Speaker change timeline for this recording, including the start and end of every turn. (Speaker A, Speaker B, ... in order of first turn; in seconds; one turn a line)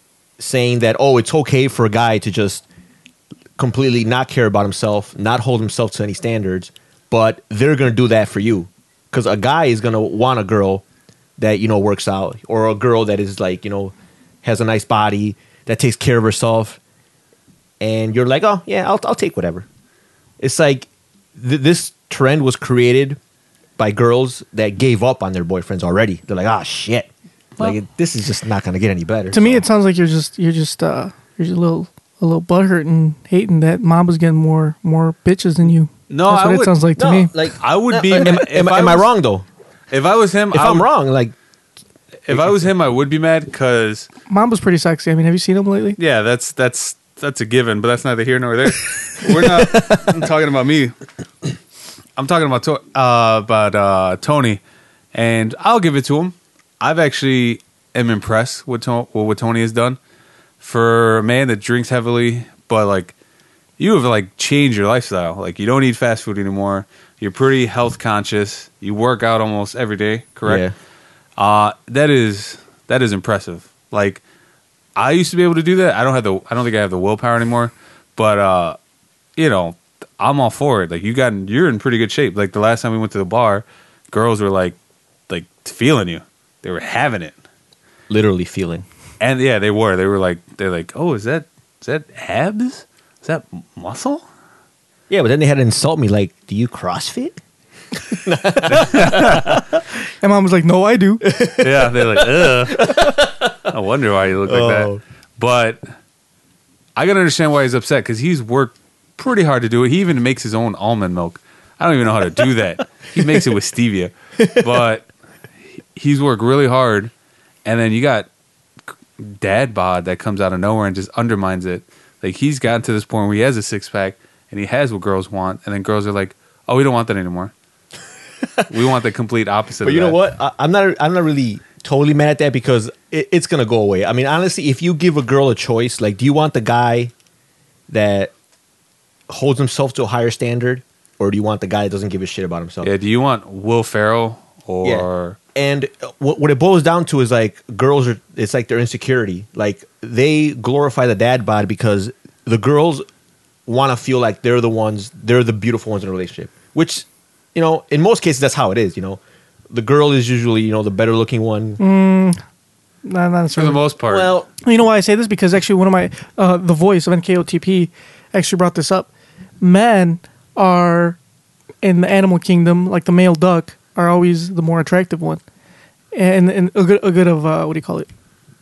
Speaker A: 0.4-2.6
Speaker A: 3.6-10.8
Speaker A: 11.4-16.8
Speaker A: 17.8-19.6
Speaker A: 20.4-23.2
Speaker A: 23.8-29.6
Speaker B: 29.3-37.3
Speaker C: 36.1-36.8
Speaker A: 37.0-39.5
Speaker C: 37.6-39.1
Speaker C: 39.9-40.9
Speaker A: 40.5-41.3
Speaker C: 42.2-44.1
Speaker A: 42.3-42.6
Speaker B: 44.3-46.0
Speaker C: 46.0-50.9
Speaker A: 49.2-50.2
Speaker C: 52.2-54.6
Speaker C: 55.1-60.0
Speaker C: 60.6-63.1
Speaker C: 63.8-70.7
Speaker A: 70.4-70.7
Speaker C: 71.4-74.2
Speaker C: 75.0-78.8
Speaker C: 79.4-84.8
Speaker C: 85.3-87.3
Speaker A: 88.1-88.8
Speaker C: 89.2-94.2
Speaker A: 95.1-97.4
Speaker A: 98.1-99.8
Speaker C: 98.7-99.6
Speaker B: 100.2-101.2
Speaker A: 101.2-103.7
Speaker C: 101.6-105.8
Speaker A: 104.5-105.0
Speaker C: 107.0-115.1
Speaker A: 114.4-114.8
Speaker C: 115.9-117.1
Speaker C: 117.6-118.3
Speaker C: 119.2-127.5
Speaker C: 128.7-130.2
Speaker A: 129.8-137.1
Speaker A: 137.9-138.3
Speaker A: 139.3-142.9
Speaker C: 142.8-145.4
Speaker A: 144.8-153.0
Speaker A: 153.7-161.8
Speaker B: 161.8-162.4
Speaker B: 163.0-163.8
Speaker C: 163.5-164.3
Speaker A: 164.1-164.5
Speaker B: 164.6-169.1
Speaker B: 169.6-171.2
Speaker B: 171.8-175.4
Speaker B: 176.1-178.1